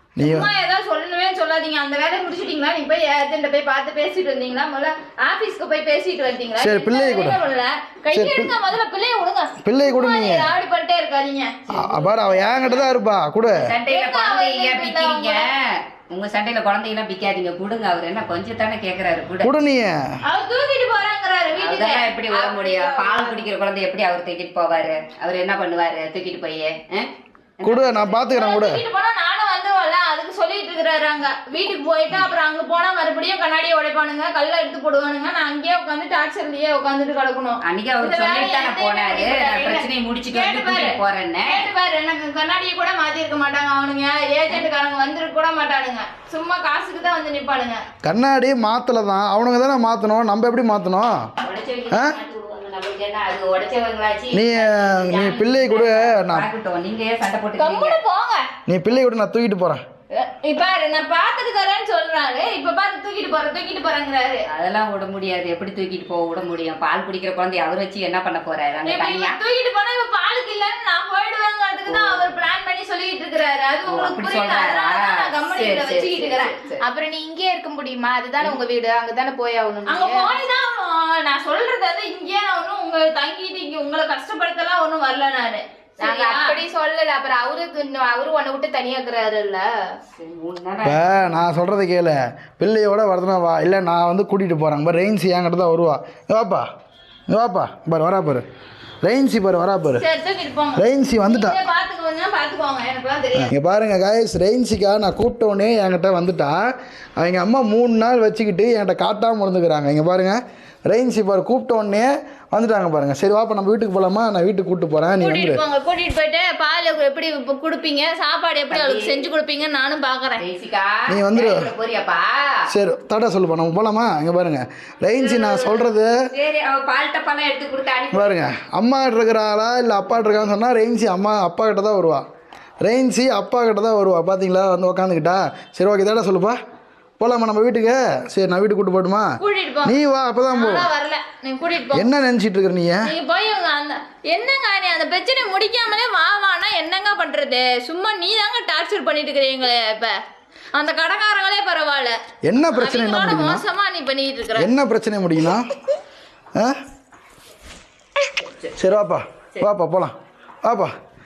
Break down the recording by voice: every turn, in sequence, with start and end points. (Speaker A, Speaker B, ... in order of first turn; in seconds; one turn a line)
Speaker A: 0.2-0.5
Speaker B: 0.2-11.5
Speaker A: 6.6-7.4
Speaker A: 8.1-8.5
Speaker A: 9.6-10.5
Speaker C: 11.7-19.5
Speaker A: 11.7-13.7
Speaker B: 13.9-15.5
Speaker A: 19.4-20.0
Speaker B: 20.3-23.4
Speaker C: 21.6-28.2
Speaker A: 27.6-28.8
Speaker B: 28.1-47.8
Speaker C: 37.6-41.7
Speaker A: 48.0-51.3
Speaker C: 51.4-58.0
Speaker A: 51.9-52.1
Speaker A: 54.3-56.5
Speaker B: 57.6-58.5
Speaker A: 58.7-59.8
Speaker B: 60.1-64.5
Speaker C: 64.5-69.4
Speaker B: 68.8-76.6
Speaker C: 71.9-72.3
Speaker C: 73.8-76.8
Speaker D: 76.8-80.3
Speaker B: 79.8-86.6
Speaker D: 86.0-89.7
Speaker C: 90.2-91.2
Speaker A: 90.8-96.7
Speaker A: 97.3-98.4
Speaker A: 99.0-100.0
Speaker B: 100.0-103.5
Speaker A: 100.8-101.6
Speaker A: 103.3-106.5
Speaker A: 107.2-115.6
Speaker B: 115.2-120.4
Speaker C: 118.7-119.3
Speaker C: 120.4-122.6
Speaker A: 121.1-121.7
Speaker A: 122.7-126.1
Speaker B: 125.2-125.8
Speaker C: 126.3-128.4
Speaker A: 128.1-132.2
Speaker A: 132.8-136.6
Speaker A: 137.2-139.3
Speaker B: 139.4-140.0
Speaker A: 139.8-140.9
Speaker B: 140.5-142.1
Speaker A: 141.9-143.1
Speaker B: 143.0-150.2
Speaker B: 150.7-152.2
Speaker A: 152.5-153.6
Speaker B: 152.7-154.7
Speaker A: 154.6-155.7
Speaker A: 158.7-160.9